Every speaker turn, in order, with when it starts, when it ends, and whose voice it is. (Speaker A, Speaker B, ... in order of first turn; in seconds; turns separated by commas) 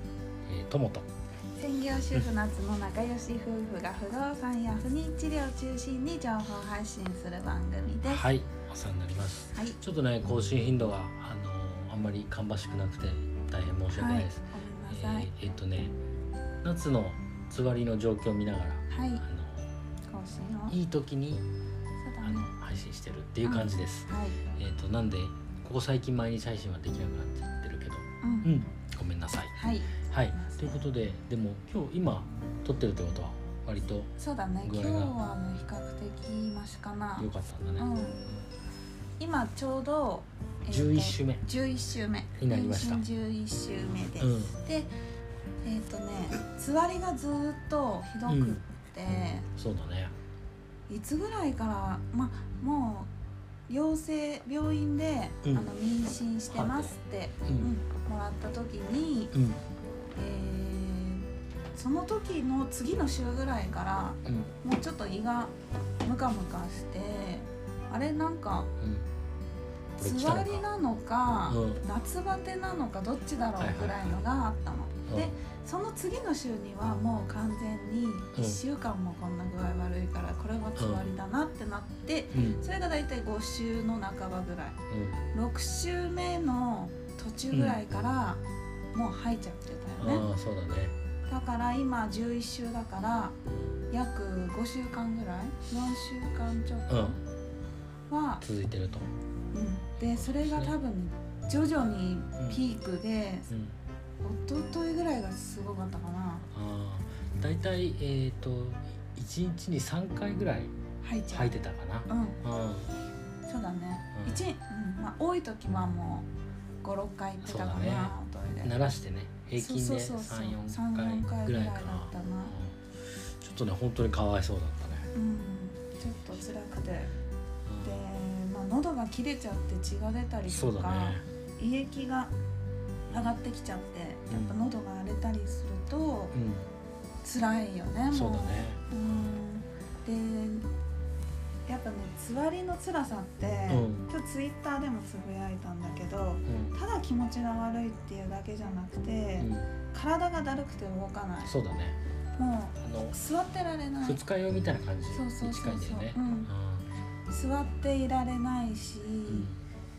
Speaker A: 0.5-1.1, Speaker B: 1.6-8.2, Speaker A: 8.0-15.9, Speaker B: 13.9-15.3, Speaker A: 16.6-19.7, Speaker B: 18.9-19.2, Speaker B: 20.1-20.8, Speaker A: 20.7-21.4, Speaker B: 22.0-22.5, Speaker A: 22.2-29.5, Speaker B: 23.4-24.4, Speaker B: 28.2-28.5, Speaker B: 29.6-30.7, Speaker A: 30.1-34.1, Speaker B: 34.2-38.2, Speaker A: 34.6-35.1, Speaker A: 37.2-38.5, Speaker B: 39.2-44.9, Speaker A: 40.7-41.4, Speaker A: 42.4-43.0, Speaker A: 44.2-44.6, Speaker B: 45.6-49.5, Speaker A: 48.3-48.6, Speaker A: 49.6-50.1, Speaker B: 50.9-53.1, Speaker B: 53.7-59.3, Speaker A: 55.4-55.7, Speaker A: 56.5-56.9, Speaker A: 57.5-57.7, Speaker A: 59.3-59.6, Speaker B: 60.1-68.7, Speaker A: 64.2-64.5, Speaker A: 68.8-69.0, Speaker B: 70.0-84.8, Speaker A: 70.0-70.7, Speaker A: 71.5-71.8, Speaker A: 73.6-74.2, Speaker A: 75.1-75.3, Speaker A: 78.3-78.6, Speaker A: 80.8-81.0, Speaker A: 82.3-82.6, Speaker A: 84.9-85.2, Speaker B: 85.3-88.4, Speaker A: 87.5-87.8, Speaker B: 88.9-90.3, Speaker A: 90.0-90.9, Speaker B: 91.3-93.3, Speaker B: 93.9-97.2, Speaker A: 96.9-97.2, Speaker B: 98.1-98.4, Speaker A: 98.4-99.1, Speaker B: 99.5-103.5, Speaker A: 100.0-100.7, Speaker A: 103.5-103.8, Speaker B: 104.2-106.5, Speaker A: 106.5-110.7, Speaker B: 111.0-111.5, Speaker A: 111.3-112.9, Speaker B: 112.1-112.4, Speaker B: 113.5-116.3, Speaker A: 114.1-114.4, Speaker B: 116.8-118.7, Speaker A: 117.4-125.1, Speaker B: 119.5-122.5, Speaker B: 125.1-127.1, Speaker A: 127.7-128.0, Speaker B: 127.8-132.3, Speaker A: 130.4-131.2, Speaker B: 133.1-136.3, Speaker A: 134.3-134.6, Speaker A: 136.3-136.7, Speaker B: 137.2-140.7, Speaker A: 138.1-139.3, Speaker B: 141.7-151.5, Speaker A: 143.7-144.1, Speaker A: 146.4-146.7, Speaker A: 149.4-149.7, Speaker A: 151.4-152.0, Speaker B: 152.4-154.2, Speaker A: 152.8-153.2, Speaker A: 154.0-156.9, Speaker B: 155.1-156.5, Speaker B: 157.3-159.5, Speaker A: 159.3-159.6